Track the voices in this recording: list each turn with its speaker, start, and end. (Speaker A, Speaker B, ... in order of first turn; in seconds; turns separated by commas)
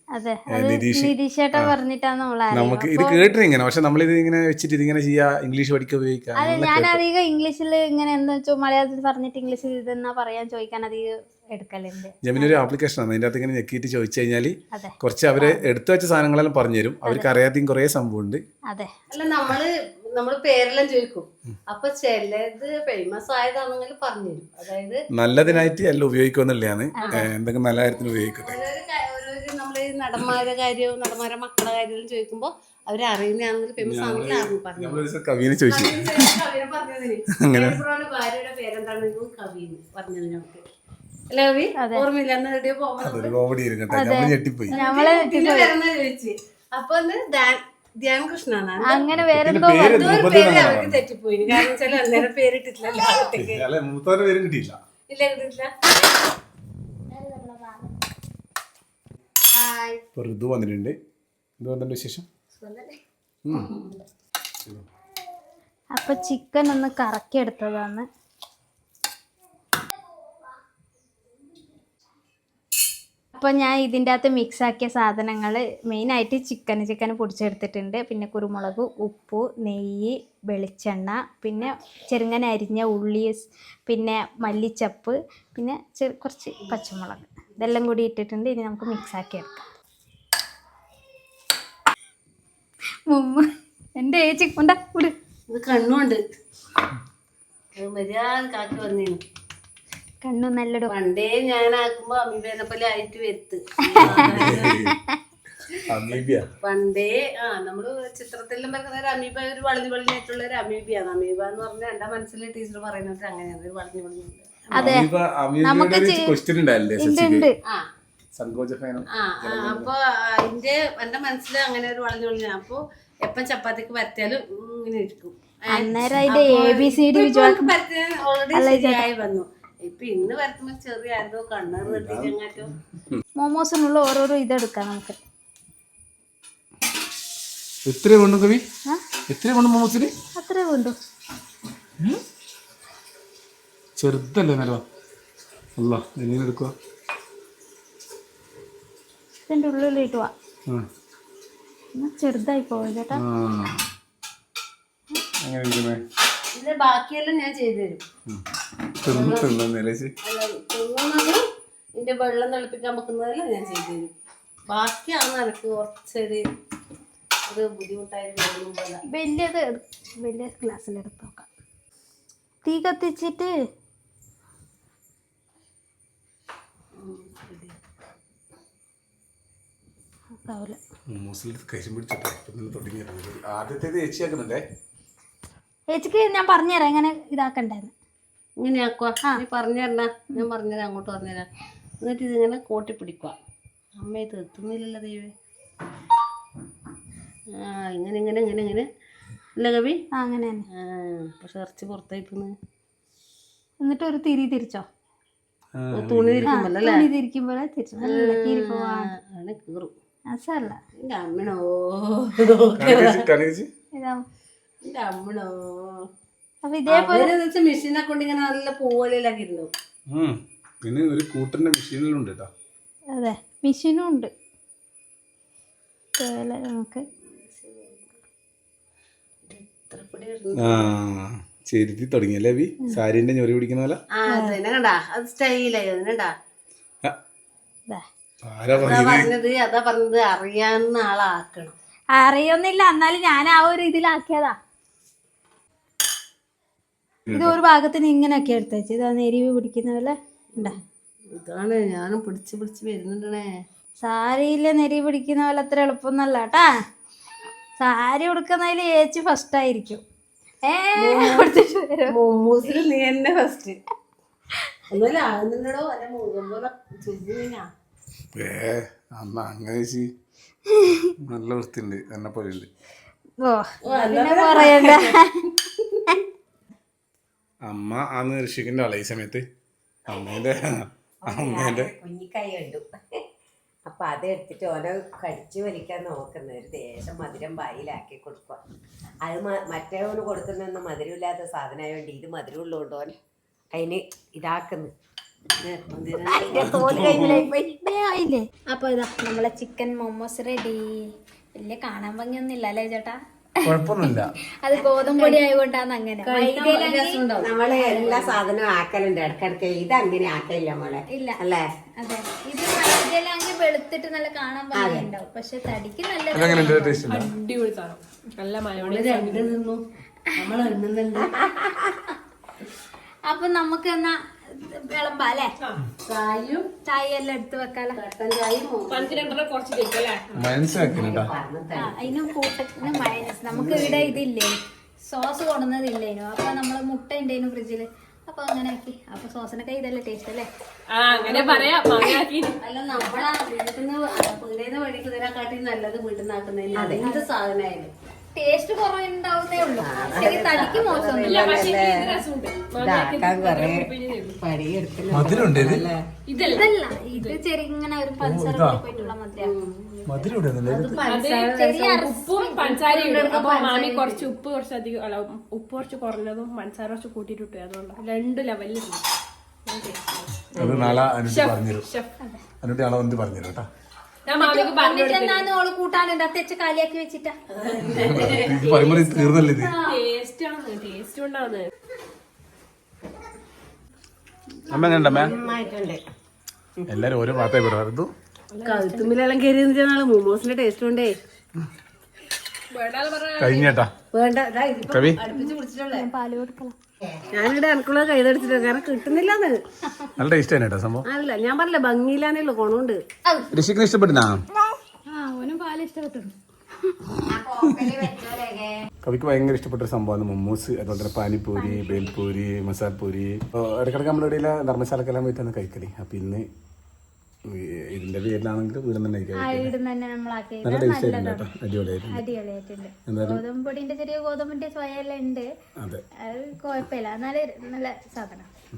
Speaker A: 0.1-3.3, Speaker B: 0.5-1.7, Speaker B: 2.5-7.0, Speaker A: 6.4-12.6, Speaker B: 12.2-18.4, Speaker A: 14.7-15.6, Speaker C: 19.1-25.6, Speaker B: 25.1-28.6, Speaker A: 27.0-27.2, Speaker C: 28.4-35.0, Speaker B: 33.8-36.3, Speaker C: 35.7-40.6, Speaker B: 37.4-37.8, Speaker C: 41.3-43.3, Speaker A: 41.8-42.1, Speaker B: 43.0-44.8, Speaker A: 43.9-45.7, Speaker C: 44.7-49.1, Speaker A: 48.8-50.4, Speaker B: 49.1-51.0, Speaker C: 49.9-53.6, Speaker A: 51.5-52.1, Speaker B: 53.4-54.8, Speaker C: 55.1-55.7, Speaker A: 57.2-57.6, Speaker B: 60.1-60.9, Speaker B: 61.6-62.2, Speaker B: 63.5-63.7, Speaker A: 65.9-68.0, Speaker A: 73.3-89.6, Speaker A: 93.1-93.4, Speaker A: 94.0-95.1, Speaker C: 95.5-96.2, Speaker C: 97.8-99.2, Speaker A: 100.2-100.9, Speaker C: 100.9-104.7, Speaker A: 103.9-105.2, Speaker B: 104.0-105.0, Speaker B: 105.9-106.4, Speaker C: 106.6-114.9, Speaker A: 114.7-115.1, Speaker B: 114.8-117.5, Speaker A: 115.6-116.3, Speaker A: 117.0-117.5, Speaker B: 118.3-119.9, Speaker C: 119.1-132.7, Speaker A: 125.7-127.7, Speaker A: 128.5-129.1, Speaker B: 131.8-132.3, Speaker A: 133.4-135.2, Speaker B: 137.8-138.6, Speaker B: 139.3-140.1, Speaker A: 140.3-140.9, Speaker B: 144.0-144.8, Speaker B: 145.8-146.7, Speaker A: 149.5-150.3, Speaker A: 151.9-153.2, Speaker B: 153.1-153.8, Speaker B: 155.4-156.0, Speaker C: 156.5-158.0, Speaker B: 159.0-160.1, Speaker C: 159.1-159.5, Speaker C: 160.2-161.4, Speaker C: 162.0-164.1, Speaker C: 164.7-166.4, Speaker C: 167.5-169.0, Speaker A: 169.1-171.5, Speaker A: 172.6-173.5, Speaker C: 177.0-177.8, Speaker A: 180.4-180.8, Speaker B: 181.1-184.6, Speaker A: 185.9-187.9, Speaker C: 188.6-191.5, Speaker C: 192.0-193.3, Speaker C: 194.0-195.3, Speaker C: 197.5-198.8, Speaker C: 199.6-200.0, Speaker A: 200.1-200.6, Speaker C: 200.7-202.5, Speaker A: 203.8-204.8, Speaker B: 205.8-206.5, Speaker C: 205.9-207.0, Speaker A: 206.5-209.1, Speaker C: 208.0-209.9, Speaker A: 210.3-210.8, Speaker C: 210.9-213.2, Speaker B: 212.7-213.7, Speaker A: 213.9-214.2, Speaker C: 214.8-216.0, Speaker A: 216.6-217.3, Speaker C: 216.9-219.7, Speaker B: 220.1-222.5, Speaker A: 223.1-224.3, Speaker A: 226.2-227.0, Speaker C: 227.2-228.1, Speaker C: 229.4-230.9, Speaker B: 230.6-234.0, Speaker C: 234.2-236.3, Speaker A: 234.3-234.6, Speaker B: 238.4-239.3, Speaker C: 238.8-241.7, Speaker A: 242.1-244.5, Speaker B: 247.3-247.6, Speaker A: 247.3-250.8, Speaker C: 251.3-253.5, Speaker A: 254.0-256.7, Speaker A: 257.8-260.0, Speaker A: 260.6-262.1, Speaker C: 261.0-261.5, Speaker C: 262.1-263.8, Speaker C: 264.9-267.6, Speaker B: 268.3-270.1, Speaker A: 270.8-271.1, Speaker B: 271.2-272.7, Speaker A: 273.4-275.3, Speaker C: 273.8-275.1, Speaker C: 275.7-276.0, Speaker B: 277.7-279.4, Speaker B: 280.1-281.9, Speaker D: 281.2-282.9, Speaker D: 283.9-288.6, Speaker D: 289.2-293.1, Speaker D: 293.7-294.9, Speaker C: 295.6-296.8, Speaker D: 296.2-297.4, Speaker A: 296.5-303.2, Speaker B: 296.6-297.4, Speaker B: 303.6-304.3, Speaker A: 304.0-307.2, Speaker C: 304.9-305.4, Speaker C: 306.2-308.4, Speaker D: 307.4-311.6, Speaker A: 311.1-311.4, Speaker A: 312.0-317.0, Speaker D: 314.8-315.1, Speaker B: 316.3-317.3, Speaker E: 317.1-319.5, Speaker C: 318.8-319.8, Speaker C: 320.4-321.7, Speaker A: 323.3-325.5, Speaker C: 326.1-326.7, Speaker A: 326.9-328.0, Speaker C: 327.9-329.4, Speaker E: 328.9-330.2, Speaker B: 330.3-331.3, Speaker D: 330.7-332.2, Speaker A: 331.8-340.5, Speaker D: 332.8-334.0, Speaker B: 333.5-334.1, Speaker E: 340.9-342.6, Speaker C: 341.1-347.9, Speaker D: 346.7-347.0, Speaker A: 348.3-351.6, Speaker D: 349.8-356.0, Speaker E: 351.2-354.4, Speaker B: 355.1-355.8, Speaker E: 356.3-357.4, Speaker A: 356.4-359.5, Speaker B: 358.2-358.8, Speaker C: 359.4-362.0, Speaker B: 360.1-361.0, Speaker E: 361.0-369.0, Speaker A: 361.4-362.8, Speaker C: 362.8-364.3, Speaker E: 369.6-372.1, Speaker B: 370.5-371.9, Speaker B: 372.6-373.6, Speaker E: 374.2-375.5, Speaker A: 374.3-377.3, Speaker C: 377.5-378.6, Speaker B: 377.9-379.8, Speaker E: 378.5-381.7, Speaker B: 384.7-385.4, Speaker C: 384.8-385.2, Speaker D: 385.2-386.0, Speaker B: 386.9-388.1, Speaker E: 388.5-389.1, Speaker C: 388.6-391.1, Speaker E: 392.7-393.8, Speaker B: 393.4-393.9, Speaker C: 394.1-396.1, Speaker B: 394.9-395.2, Speaker A: 395.3-396.7, Speaker C: 397.3-399.6, Speaker B: 400.2-401.0, Speaker C: 401.0-403.0, Speaker B: 403.5-404.4, Speaker A: 405.1-406.3, Speaker D: 407.2-408.8, Speaker B: 409.0-416.4, Speaker A: 411.6-412.1, Speaker B: 417.5-419.7, Speaker A: 419.4-421.5, Speaker B: 420.6-422.2, Speaker A: 422.1-425.5, Speaker B: 423.1-423.4, Speaker A: 426.2-428.5